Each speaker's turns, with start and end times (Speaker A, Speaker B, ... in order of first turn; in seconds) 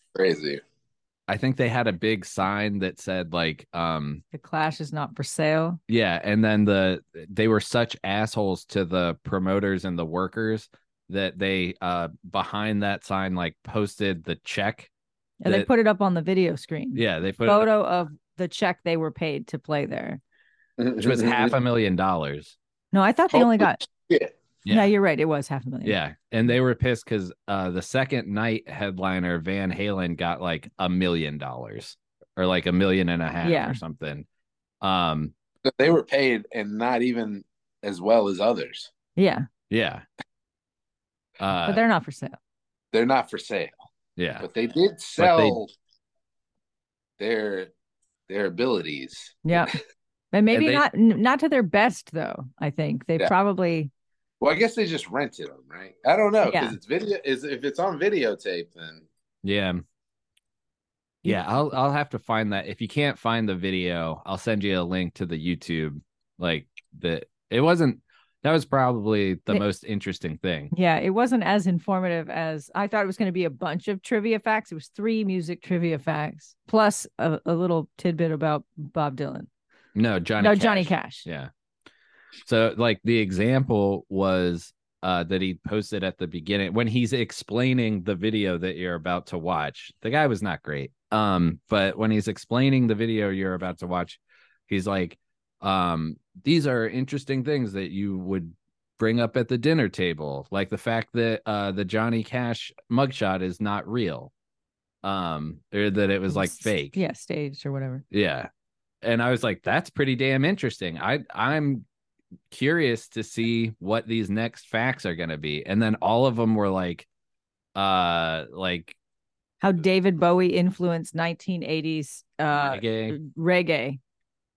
Speaker A: 0.1-0.6, 20.8-21.5, 23.3-24.3, 35.6-38.9, 42.9-43.7, 44.4-45.7, 47.2-47.7, 48.3-49.7, 54.4-59.0
Speaker B: 1.3-4.2, 5.9-14.9, 16.9-17.7, 21.0-22.6, 24.6-24.9, 25.8-34.2, 34.8-35.3, 39.7-40.0, 41.4-41.8, 44.2-44.5, 45.2-45.6, 50.5-50.8, 59.4-59.8, 61.2-70.7, 79.9-81.5, 82.4-104.3, 105.0-107.0, 108.1-108.5, 109.0-111.8, 112.5-117.1, 117.7-119.0, 122.5-123.2
Speaker C: 4.3-5.8, 15.4-20.2, 22.9-23.8, 24.7-25.9, 33.4-33.8, 39.2-39.5, 41.7-42.4, 49.4-49.7, 50.3-53.9, 56.4-56.8, 61.2-61.5, 70.7-79.5, 80.4-81.2, 106.3-108.0, 119.6-124.0